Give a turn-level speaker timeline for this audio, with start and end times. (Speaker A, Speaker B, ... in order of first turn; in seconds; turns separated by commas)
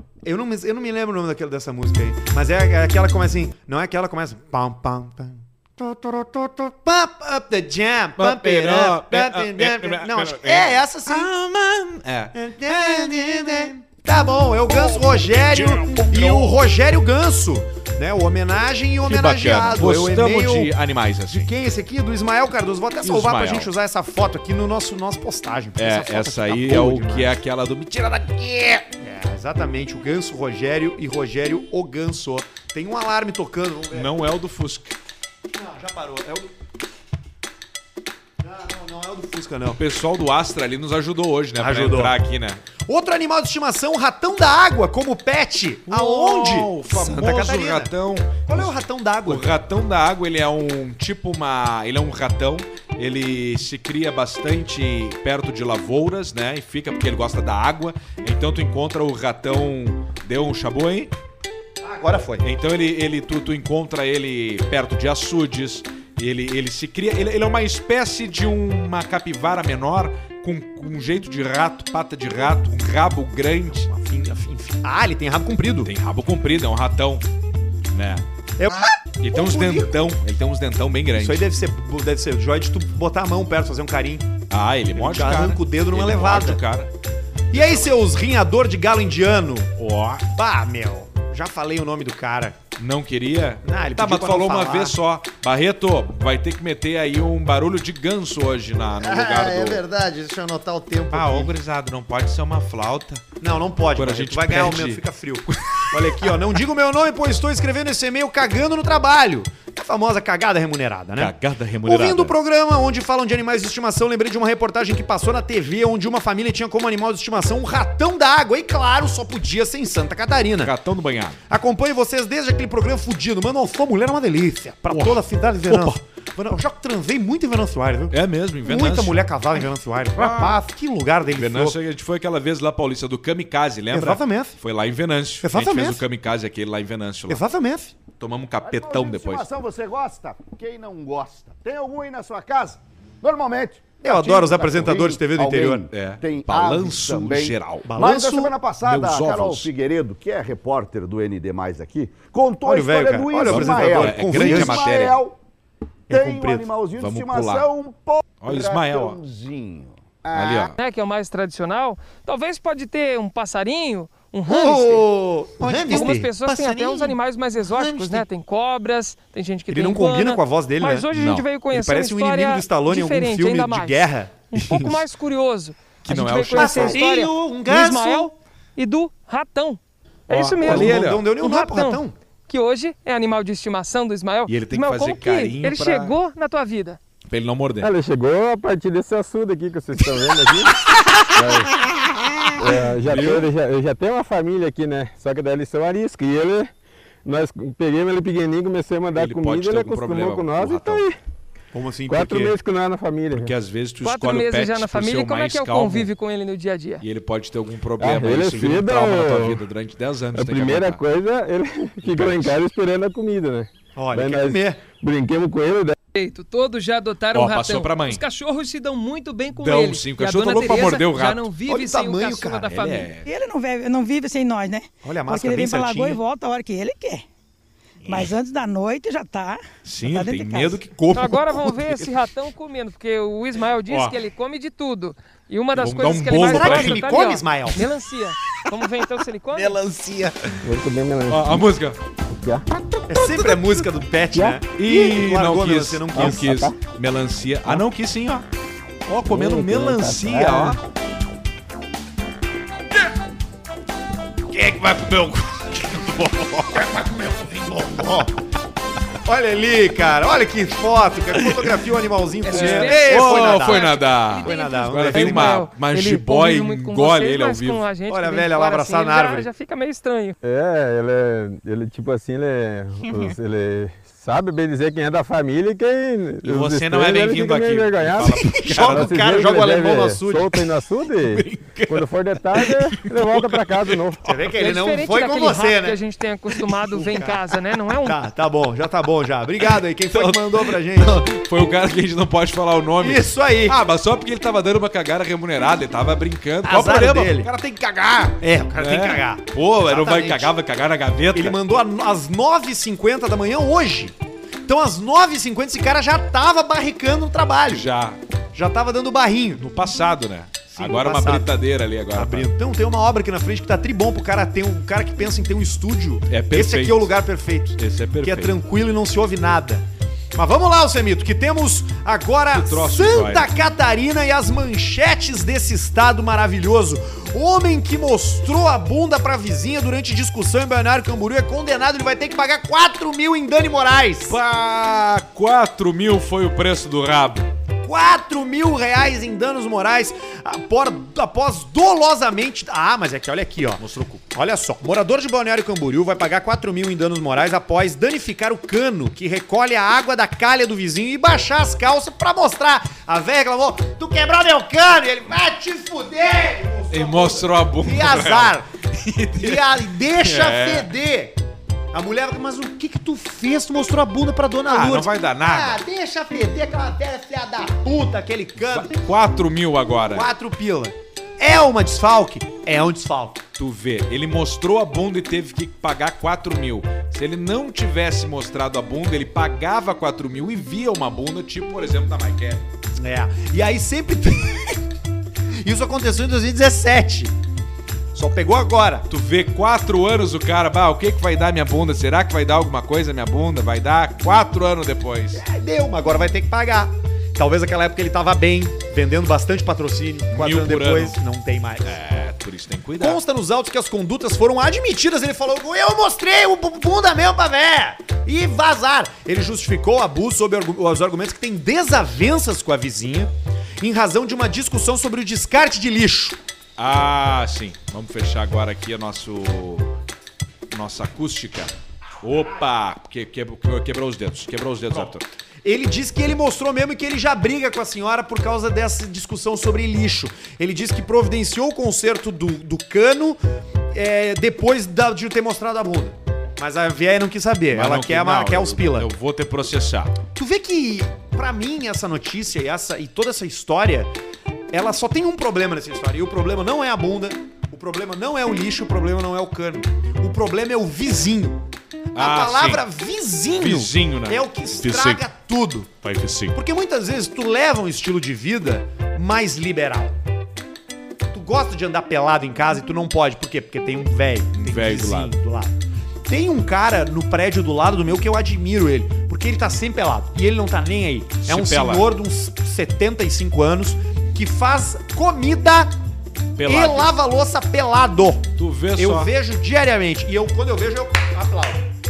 Speaker A: 0.2-11.3, Speaker B: 8.2-13.7, Speaker A: 12.3-20.7, Speaker B: 14.7-16.6, Speaker B: 19.0-21.5, Speaker A: 21.3-27.4, Speaker B: 23.0-23.7, Speaker B: 25.8-28.9, Speaker A: 29.0-34.1, Speaker B: 33.9-35.0, Speaker A: 35.5-36.5, Speaker A: 38.4-39.8, Speaker B: 39.7-42.6, Speaker A: 41.6-42.1, Speaker A: 42.8-47.9, Speaker B: 45.9-61.1, Speaker A: 48.4-49.5, Speaker A: 61.8-62.5, Speaker B: 62.4-73.9, Speaker A: 73.7-75.9, Speaker B: 75.8-77.2, Speaker B: 77.9-78.2, Speaker A: 78.6-79.9, Speaker B: 79.2-81.5, Speaker A: 81.2-84.3, Speaker B: 84.5-86.9, Speaker A: 84.9-86.6, Speaker B: 87.5-88.0, Speaker A: 87.5-89.7, Speaker B: 89.8-90.2, Speaker A: 90.3-92.6, Speaker B: 92.8-99.8, Speaker A: 93.6-95.0, Speaker A: 99.0-101.5, Speaker B: 101.1-103.2, Speaker A: 103.4-120.7, Speaker B: 103.9-106.4, Speaker B: 111.2-112.3, Speaker B: 120.6-121.4, Speaker A: 121.5-131.8, Speaker B: 124.9-126.0, Speaker B: 128.1-129.2, Speaker B: 130.2-130.6, Speaker B: 131.3-137.4, Speaker A: 133.9-134.6, Speaker A: 135.4-136.0, Speaker A: 137.3-137.9, Speaker B: 138.2-139.5, Speaker C: 138.6-155.4, Speaker A: 144.0-145.8, Speaker B: 145.9-147.9, Speaker A: 147.8-148.5, Speaker B: 148.8-149.7, Speaker A: 152.6-155.1, Speaker B: 153.5-155.2, Speaker A: 156.1-156.7, Speaker C: 156.1-160.7, Speaker B: 157.0-157.7, Speaker B: 158.4-159.2, Speaker B: 160.3-160.8, Speaker D: 160.8-165.1, Speaker A: 164.5-168.2, Speaker D: 165.7-187.0, Speaker B: 165.7-166.1, Speaker A: 169.7-171.1, Speaker B: 171.1-171.4, Speaker A: 171.7-174.3, Speaker B: 174.5-175.0, Speaker B: 176.0-177.0, Speaker A: 176.5-178.3, Speaker B: 180.3-181.2, Speaker A: 180.6-182.1, Speaker B: 184.5-186.2, Speaker B: 187.3-187.9, Speaker E: 187.8-191.7, Speaker B: 192.3-193.5, Speaker E: 192.5-196.7, Speaker E: 197.2-201.2, Speaker B: 199.1-201.1, Speaker A: 201.7-202.5, Speaker E: 202.1-203.5, Speaker B: 203.3-206.1, Speaker D: 204.0-207.0, Speaker B: 207.0-211.0, Speaker E: 208.0-209.6, Speaker E: 210.3-216.0, Speaker B: 212.0-212.6, Speaker A: 213.9-214.8, Speaker D: 216.1-223.1, Speaker B: 217.3-218.2, Speaker B: 219.5-221.5, Speaker A: 221.7-222.7, Speaker B: 222.7-223.3, Speaker F: 223.2-227.2, Speaker A: 225.0-226.2, Speaker F: 228.1-230.8, Speaker B: 229.8-232.1, Speaker D: 231.1-239.8, Speaker B: 233.9-234.2, Speaker B: 235.7-237.1, Speaker A: 236.4-237.8, Speaker B: 239.5-240.7, Speaker E: 240.6-241.6, Speaker B: 241.3-242.0, Speaker E: 242.3-242.6, Speaker A: 243.1-246.5, Speaker B: 244.8-248.5, Speaker E: 246.2-246.7, Speaker B: 249.1-250.8, Speaker E: 249.3-250.8, Speaker B: 254.5-257.0, Speaker A: 256.7-258.3, Speaker A: 259.2-265.6, Speaker B: 261.3-261.7, Speaker D: 262.4-270.4, Speaker B: 262.5-267.8, Speaker A: 268.1-269.5, Speaker E: 270.4-284.2, Speaker B: 276.4-279.3, Speaker A: 278.2-280.7, Speaker B: 281.1-284.3, Speaker A: 284.2-286.0, Speaker D: 284.5-288.2, Speaker A: 286.9-291.2, Speaker B: 289.6-301.6, Speaker A: 293.0-293.8, Speaker A: 296.6-297.5, Speaker A: 298.4-300.5, Speaker A: 301.3-307.9, Speaker B: 307.7-308.2, Speaker A: 308.5-309.6, Speaker B: 309.6-312.5, Speaker A: 310.7-311.5, Speaker A: 312.1-334.4, Speaker B: 316.3-317.1, Speaker B: 317.8-318.6, Speaker B: 322.5-323.5, Speaker B: 334.3-337.5, Speaker A: 337.8-358.7, Speaker B: 343.8-344.2, Speaker B: 356.9-360.9, Speaker A: 359.4-361.4, Speaker A: 361.9-368.9, Speaker B: 364.6-365.8, Speaker B: 368.6-370.3, Speaker A: 370.1-373.4, Speaker B: 373.6-382.7, Speaker A: 382.9-384.8, Speaker A: 385.6-387.3, Speaker A: 388.1-389.1, Speaker B: 389.1-395.4, Speaker A: 395.3-402.0, Speaker B: 400.3-401.2, Speaker B: 401.8-403.2, Speaker A: 403.0-416.4, Speaker B: 416.8-419.9, Speaker B: 420.7-425.2, Speaker A: 425.6-433.4, Speaker A: 433.9-439.1, Speaker B: 437.7-440.1, Speaker A: 440.3-444.1, Speaker A: 444.7-455.9, Speaker B: 452.1-452.8, Speaker B: 453.5-455.2, Speaker B: 456.0-456.6, Speaker A: 456.5-460.1, Speaker A: 461.3-465.7, Speaker B: 464.5-465.3, Speaker A: 466.3-475.9, Speaker B: 471.4-472.1, Speaker B: 476.6-477.1, Speaker A: 476.6-481.8, Speaker B: 478.6-479.3